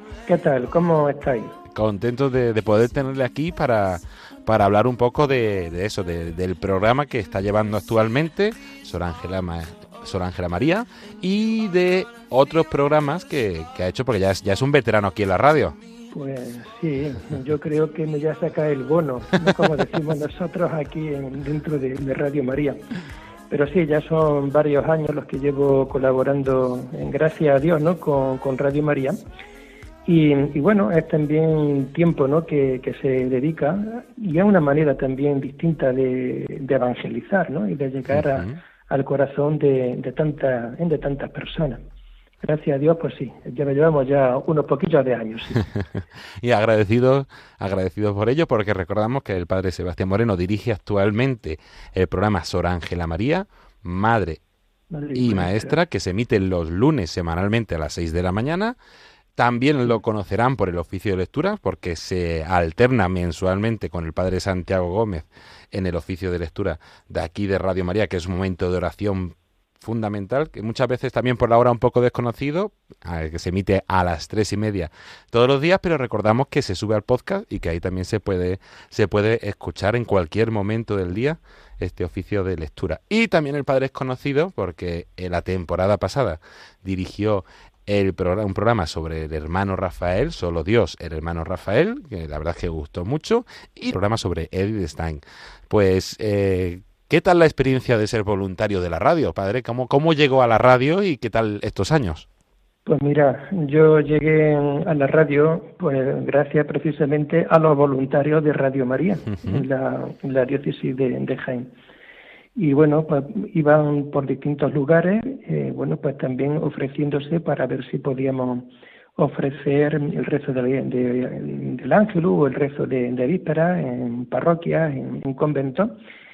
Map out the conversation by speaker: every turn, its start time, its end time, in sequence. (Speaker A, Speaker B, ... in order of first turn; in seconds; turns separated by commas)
Speaker A: 0.3-1.5, Speaker B: 1.7-15.8, Speaker A: 16.1-22.8, Speaker A: 23.5-29.2, Speaker A: 30.1-41.8, Speaker B: 38.1-38.5, Speaker A: 42.4-45.6, Speaker B: 46.4-54.4, Speaker A: 54.9-55.8, Speaker B: 55.1-58.8, Speaker B: 59.4-102.3, Speaker A: 102.9-111.7, Speaker A: 112.6-118.7, Speaker A: 119.2-125.9